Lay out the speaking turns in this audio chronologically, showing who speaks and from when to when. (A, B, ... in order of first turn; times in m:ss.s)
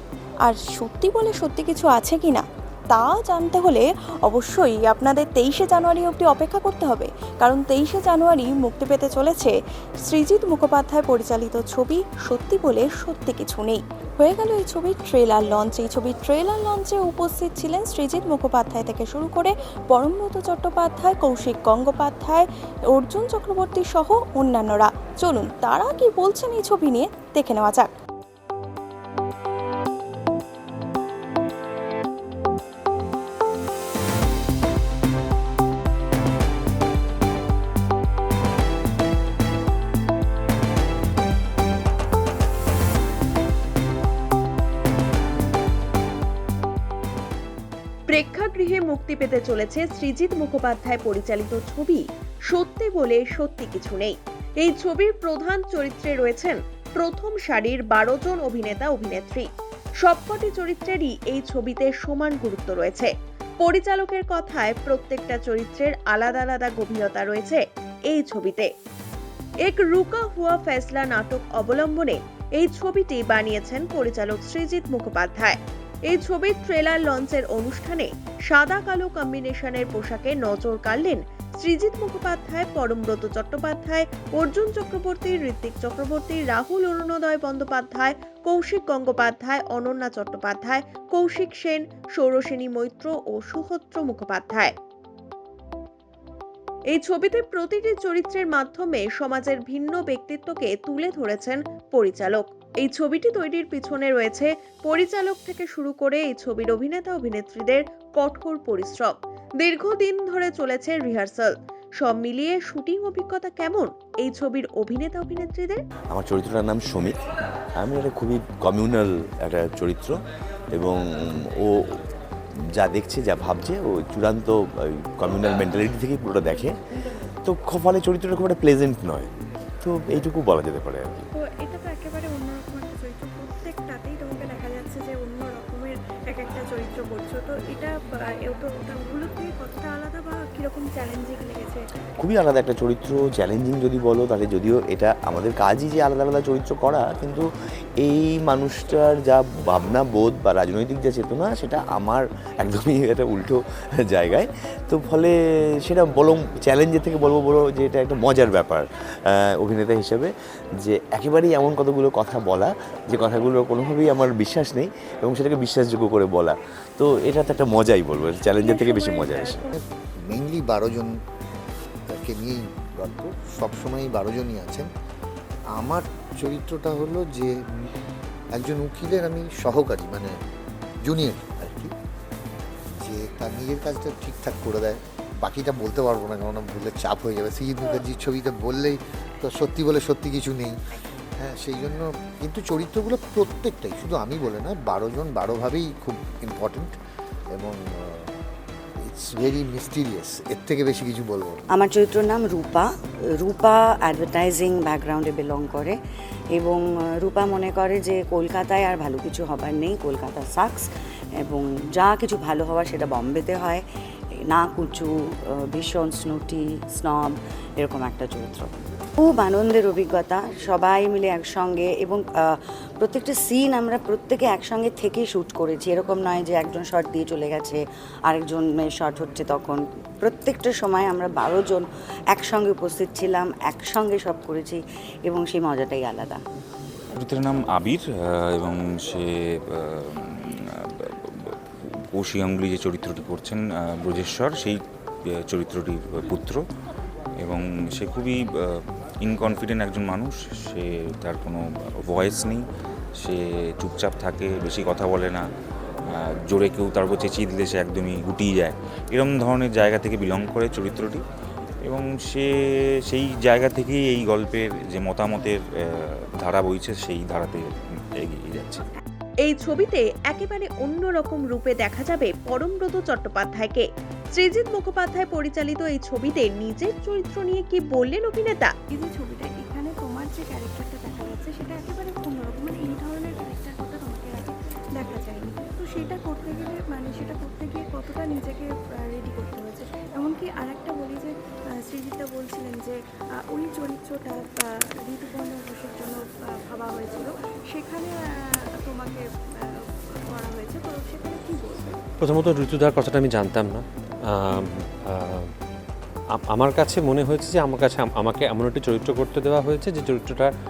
0:00.4-0:09.5 A
0:10.0-0:27.9 A
0:48.1-0:59.5 B
1:00.0-1:08.7 B
1:09.6-1:15.6 B
1:16.1-1:34.7 B
1:36.9-1:55.8 B
1:56.1-1:57.2 C
1:57.8-2:00.2 C
2:00.7-2:02.0 C
2:02.8-2:06.8 C
2:07.4-2:11.3 C
2:11.4-2:21.8 D
2:22.2-2:27.5 C
2:28.0-2:49.6 C
2:48.5-2:49.7 D
2:50.3-2:51.2 E
2:52.1-2:54.9 E
2:55.7-2:57.8 E
2:58.5-3:00.4 E
3:01.0-3:01.9 E
3:03.0-3:10.8 E
3:11.4-3:17.0 E
3:17.5-3:18.3 E
3:19.0-3:21.6 E
3:21.7-3:26.0 F
3:26.5-3:30.8 F
3:31.4-3:33.8 F
3:34.5-3:42.4 F
3:43.0-3:56.4 F
3:57.1-4:00.1 G
4:02.1-4:04.8 G
4:05.3-4:06.6 G
4:07.4-4:12.6 G
4:13.2-4:15.4 G
4:16.1-4:21.2 G
4:21.8-4:22.5 G
4:23.1-4:28.8 G
4:29.4-4:38.7 B
4:38.9-4:51.3 D
4:51.9-4:53.0 D
4:53.5-4:58.1 D
4:58.8-5:02.0 D
5:02.2-5:05.5 H
5:06.3-5:10.5 H